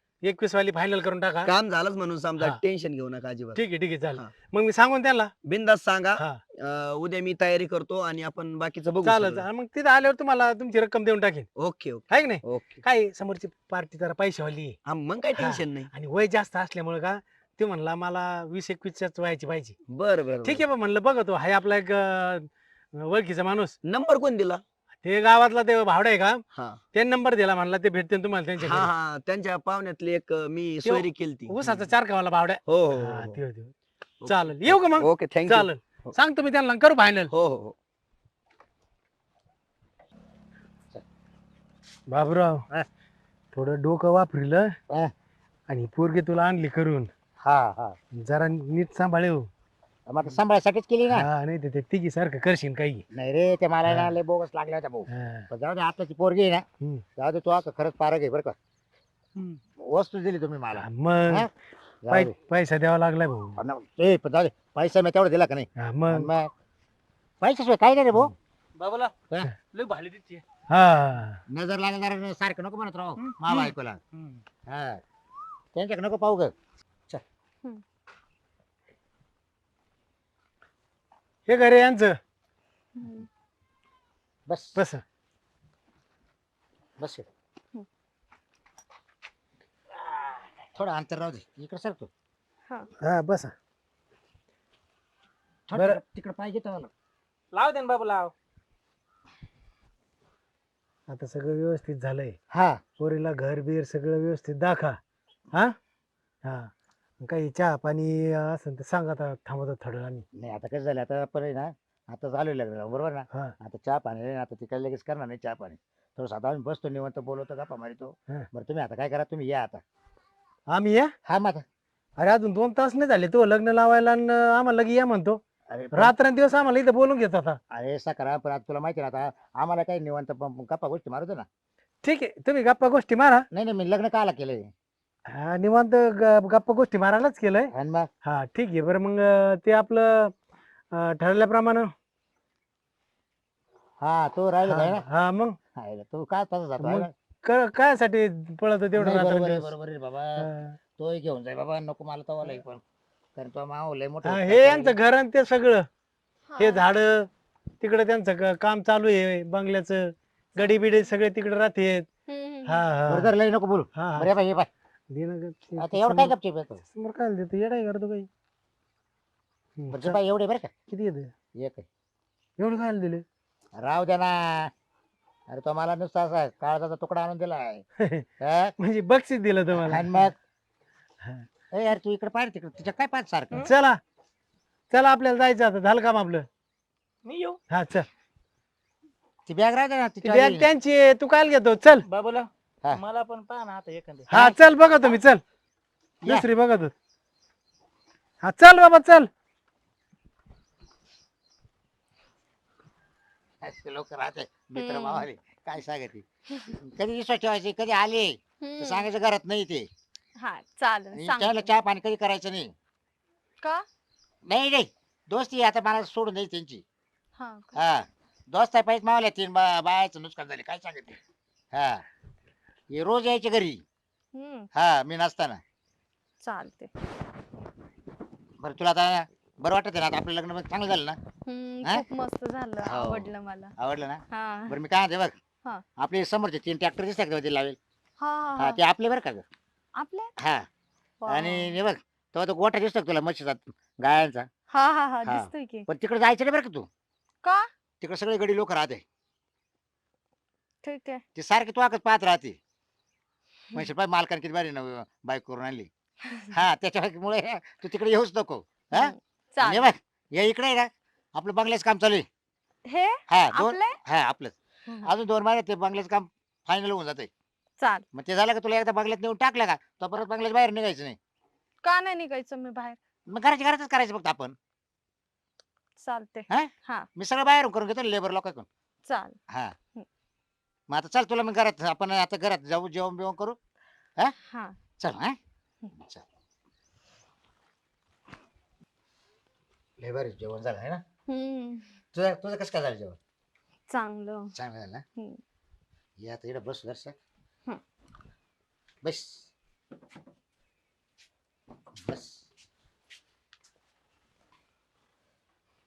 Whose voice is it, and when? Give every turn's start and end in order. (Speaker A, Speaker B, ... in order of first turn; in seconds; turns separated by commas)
Speaker A: 0.2-1.5, Speaker B: 1.4-4.3, Speaker A: 3.5-5.3, Speaker B: 5.5-9.4, Speaker A: 9.0-11.5, Speaker B: 11.6-12.8, Speaker A: 12.1-14.8, Speaker B: 14.8-15.9, Speaker A: 15.4-19.7, Speaker B: 19.9-20.6, Speaker A: 20.4-23.7, Speaker B: 23.8-24.6, Speaker A: 25.0-26.4, Speaker B: 26.5-26.8, Speaker A: 26.9-28.9, Speaker B: 28.6-31.9, Speaker A: 30.8-33.7, Speaker B: 32.7-33.4, Speaker B: 34.2-36.1, Speaker A: 34.2-37.3, Speaker B: 37.3-37.7, Speaker A: 42.1-42.6, Speaker A: 43.5-44.7, Speaker A: 45.7-47.1, Speaker C: 47.4-48.0, Speaker A: 48.2-49.5, Speaker C: 50.1-51.3, Speaker A: 51.1-53.0, Speaker C: 53.1-56.6, Speaker A: 53.9-54.1, Speaker A: 55.1-55.5, Speaker C: 57.2-58.5, Speaker C: 59.8-61.5, Speaker A: 60.8-61.5, Speaker C: 62.0-62.3, Speaker A: 62.1-63.6, Speaker C: 63.6-66.5, Speaker A: 65.8-66.3, Speaker C: 67.4-68.3, Speaker D: 68.8-69.1, Speaker D: 69.6-70.4, Speaker A: 70.7-71.4, Speaker C: 71.5-74.0, Speaker D: 74.1-74.4, Speaker C: 74.7-75.0, Speaker C: 75.7-76.5, Speaker A: 81.5-82.1, Speaker E: 83.0-83.3, Speaker C: 84.5-84.8, Speaker A: 84.8-85.0, Speaker C: 87.0-87.2, Speaker C: 90.7-92.1, Speaker A: 93.0-93.5, Speaker C: 95.7-96.9, Speaker A: 95.7-96.0, Speaker D: 97.5-98.3, Speaker A: 101.1-102.3, Speaker C: 102.5-102.8, Speaker A: 103.0-105.0, Speaker A: 106.4-110.2, Speaker C: 110.3-119.8, Speaker A: 120.7-121.1, Speaker C: 121.2-121.6, Speaker A: 122.2-125.4, Speaker C: 125.7-126.1, Speaker A: 125.9-127.6, Speaker C: 127.7-131.4, Speaker A: 132.0-133.4, Speaker C: 133.5-134.7, Speaker A: 135.3-137.7, Speaker C: 137.7-138.1, Speaker A: 138.2-140.3, Speaker A: 140.9-141.9, Speaker C: 144.0-145.0, Speaker A: 144.7-145.6, Speaker C: 145.7-147.1, Speaker A: 146.8-149.7, Speaker C: 148.9-152.8, Speaker A: 150.4-150.8, Speaker C: 153.3-154.9, Speaker A: 154.2-155.8, Speaker E: 156.5-156.8, Speaker A: 156.6-157.3, Speaker A: 157.8-162.1, Speaker E: 162.3-162.8, Speaker A: 162.7-163.3, Speaker C: 163.1-164.7, Speaker A: 163.9-164.3, Speaker A: 165.1-166.3, Speaker C: 165.8-166.8, Speaker A: 166.8-168.3, Speaker A: 169.8-170.2, Speaker C: 169.9-170.7, Speaker A: 170.9-171.3, Speaker C: 171.6-171.8, Speaker A: 172.6-173.2, Speaker C: 173.8-174.7, Speaker C: 175.5-177.8, Speaker C: 178.4-178.7, Speaker A: 178.8-180.2, Speaker C: 179.7-180.3, Speaker C: 181.7-183.7, Speaker A: 183.5-184.0, Speaker A: 184.9-186.4, Speaker D: 187.2-187.6, Speaker A: 187.7-188.1, Speaker C: 189.4-190.7, Speaker A: 190.2-192.0, Speaker D: 192.1-194.3, Speaker A: 194.3-195.4, Speaker C: 194.3-194.6, Speaker A: 196.2-196.9, Speaker A: 198.4-199.3, Speaker C: 203.6-209.9, Speaker E: 204.7-205.3, Speaker E: 208.6-209.1, Speaker E: 210.4-211.7, Speaker C: 211.1-212.7, Speaker E: 213.6-213.8, Speaker C: 214.4-216.8, Speaker E: 217.4-217.8, Speaker C: 217.7-221.2, Speaker C: 221.7-222.0, Speaker C: 222.9-223.8, Speaker E: 224.3-224.7, Speaker C: 224.7-225.6, Speaker E: 226.4-226.9, Speaker C: 228.6-231.2, Speaker E: 231.4-233.7, Speaker C: 232.8-235.4, Speaker E: 234.3-234.7, Speaker C: 236.0-237.8, Speaker E: 238.2-238.8, Speaker C: 238.6-239.4, Speaker E: 240.0-240.3, Speaker C: 240.4-240.7, Speaker E: 241.2-241.8, Speaker C: 241.3-244.5, Speaker E: 244.7-245.8, Speaker C: 245.2-246.9, Speaker E: 247.4-247.7, Speaker C: 248.0-249.0, Speaker E: 250.8-251.2, Speaker C: 251.3-252.6, Speaker C: 253.7-255.9, Speaker C: 256.5-262.2, Speaker E: 258.9-259.9, Speaker E: 262.9-264.0, Speaker C: 263.3-267.3, Speaker E: 267.8-268.0, Speaker C: 268.1-271.2, Speaker E: 271.8-273.0, Speaker C: 273.3-274.5, Speaker E: 276.0-277.1, Speaker C: 276.5-278.7, Speaker E: 279.1-279.4, Speaker C: 280.9-283.6, Speaker E: 284.4-284.8, Speaker C: 285.0-285.4, Speaker C: 286.0-286.2, Speaker C: 290.0-291.0, Speaker E: 291.3-291.9, Speaker C: 292.1-293.2, Speaker E: 293.9-294.5, Speaker C: 294.5-295.0, Speaker C: 296.2-297.1, Speaker C: 299.0-299.5, Speaker C: 302.0-302.4